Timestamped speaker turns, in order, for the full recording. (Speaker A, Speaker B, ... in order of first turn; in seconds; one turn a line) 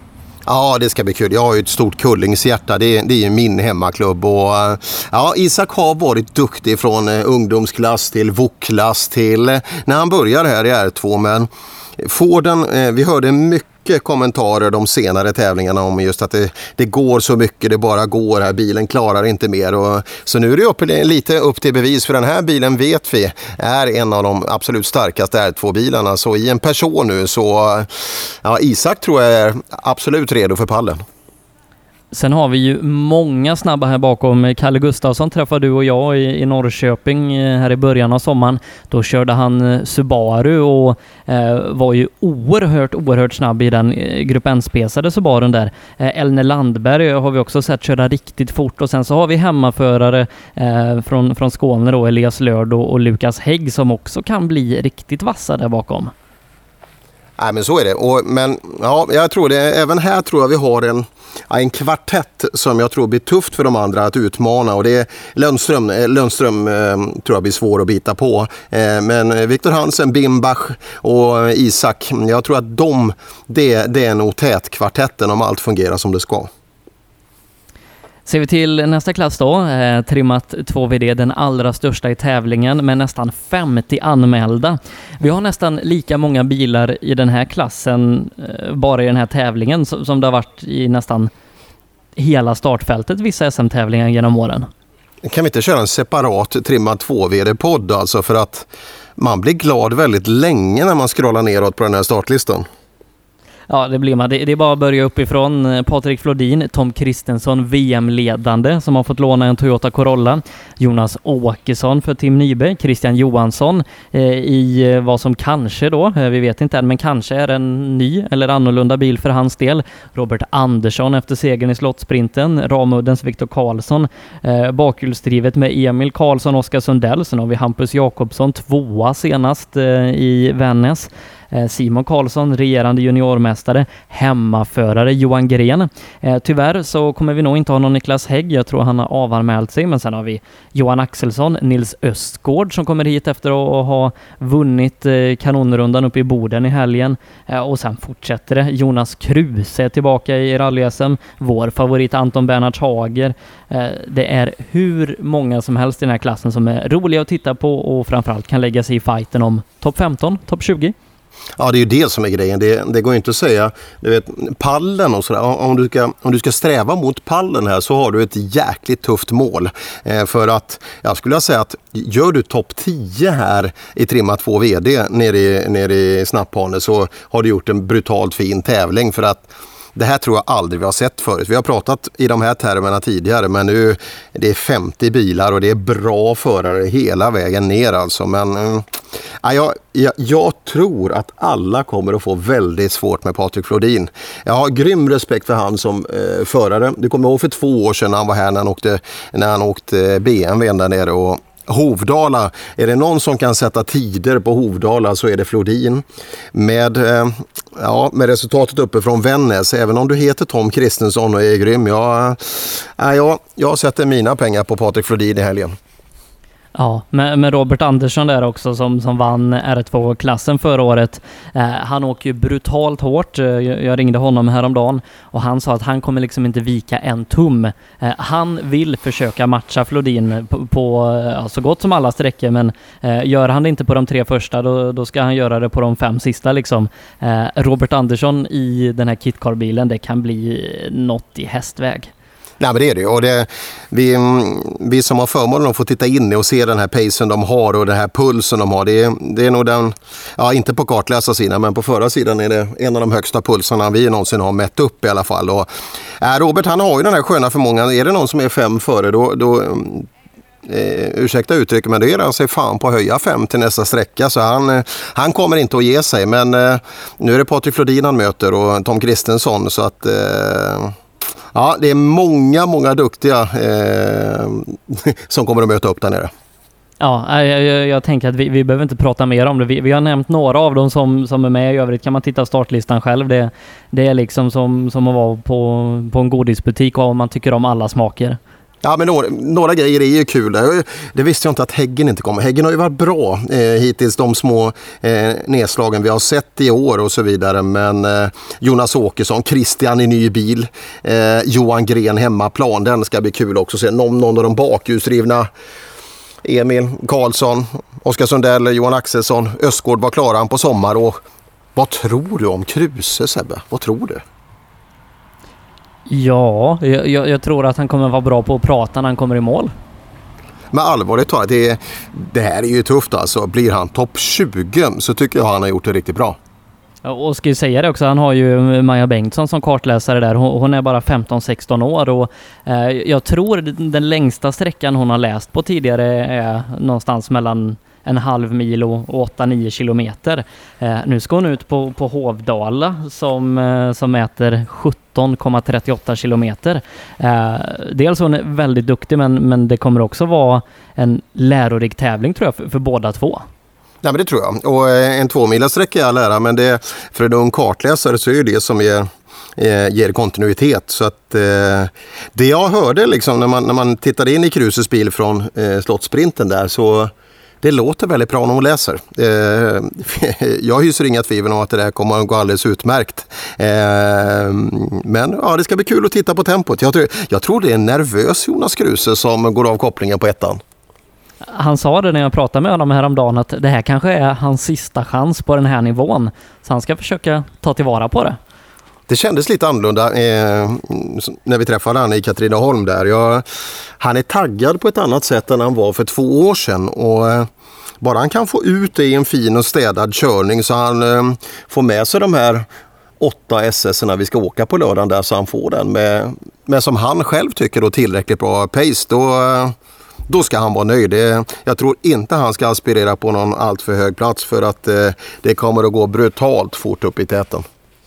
Speaker A: 0.5-27.9
Speaker A: 28.4-31.0
Speaker B: 32.1-56.1
Speaker A: 57.4-76.5
Speaker B: 78.3-91.3
Speaker B: 92.2-94.7
Speaker A: 95.2-102.7
Speaker B: 103.7-160.9
Speaker A: 161.6-188.8
Speaker A: 189.4-215.7
Speaker B: 216.7-242.1
Speaker A: 242.6-255.7
Speaker A: 256.2-260.1
Speaker A: 260.6-270.9
Speaker A: 271.5-276.3
Speaker B: 277.0-288.4
Speaker A: 288.8-305.5
Speaker A: 306.4-311.2
Speaker A: 311.8-314.2
Speaker B: 316.1-319.7
Speaker A: 320.7-326.4
Speaker B: 327.0-353.4
Speaker A: 354.0-380.6
Speaker B: 381.5-388.4
Speaker A: 389.1-393.4
Speaker A: 394.0-397.5
Speaker A: 398.0-402.6
Speaker A: 403.2-409.7
Speaker A: 410.3-417.6